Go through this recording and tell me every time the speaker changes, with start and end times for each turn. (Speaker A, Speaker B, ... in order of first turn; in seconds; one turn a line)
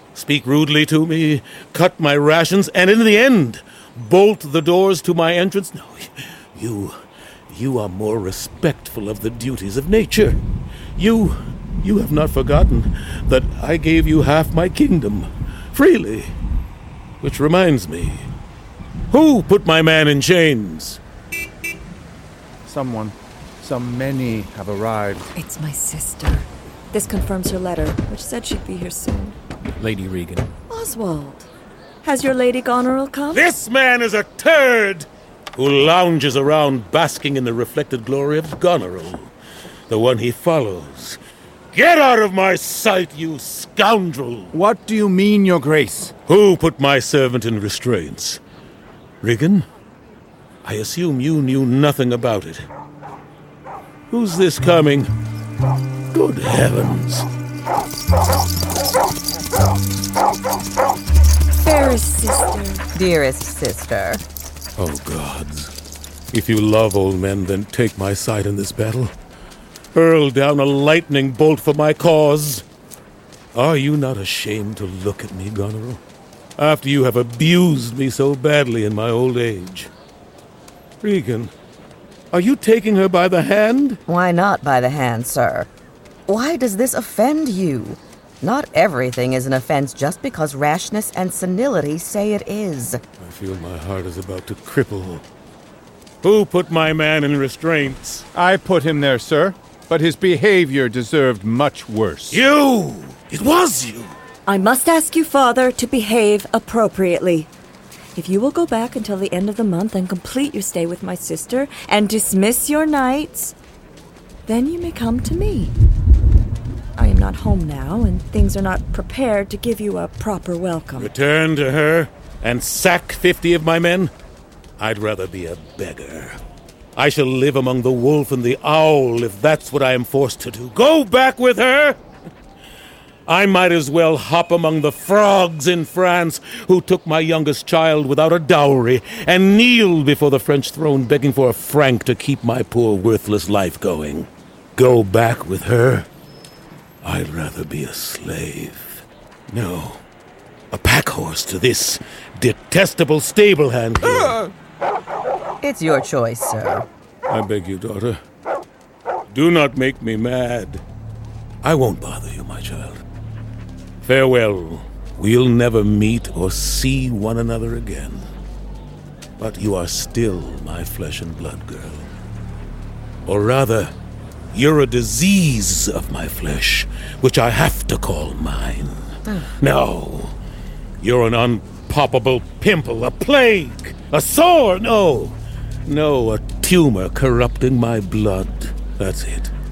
Speaker A: 0.1-7.0
Speaker A: 7.5-10.4
Speaker A: 11.0-16.3
Speaker A: 17.2-18.3
Speaker A: 19.1-21.0
Speaker B: 22.7-25.3
Speaker C: 25.4-29.4
Speaker C: 30.7-31.5
Speaker C: 32.0-33.5
Speaker A: 33.3-39.3
Speaker A: 39.9-41.2
Speaker A: 41.7-44.5
Speaker B: 44.5-46.1
Speaker A: 46.3-48.4
Speaker A: 49.2-49.7
Speaker A: 50.6-52.7
Speaker A: 54.1-55.1
Speaker A: 56.1-57.3
Speaker C: 61.6-62.9
Speaker D: 63.0-64.2
Speaker A: 64.8-65.7
Speaker A: 66.3-69.1
Speaker A: 69.9-72.6
Speaker A: 73.5-76.0
Speaker A: 76.6-79.9
Speaker A: 81.0-81.5
Speaker A: 82.3-84.0
Speaker D: 84.1-85.7
Speaker D: 86.3-93.0
Speaker A: 93.2-95.2
Speaker A: 96.2-98.3
Speaker B: 98.3-102.4
Speaker A: 102.3-104.1
Speaker C: 104.5-107.5
Speaker C: 108.2-113.6
Speaker C: 114.5-115.7
Speaker C: 117.0-121.1
Speaker A: 121.0-124.1
Speaker A: 124.8-126.4
Speaker A: 127.0-132.0
Speaker A: 133.3-146.1
Speaker A: 147.0-150.0
Speaker A: 150.7-154.4
Speaker D: 155.6-156.9
Speaker A: 157.3-158.2
Speaker A: 159.3-160.8
Speaker A: 161.6-163.0
Speaker A: 164.0-168.3
Speaker A: 169.4-172.1
Speaker A: 173.3-173.9
Speaker A: 174.5-180.4
Speaker A: 181.0-185.3
Speaker A: 185.9-189.5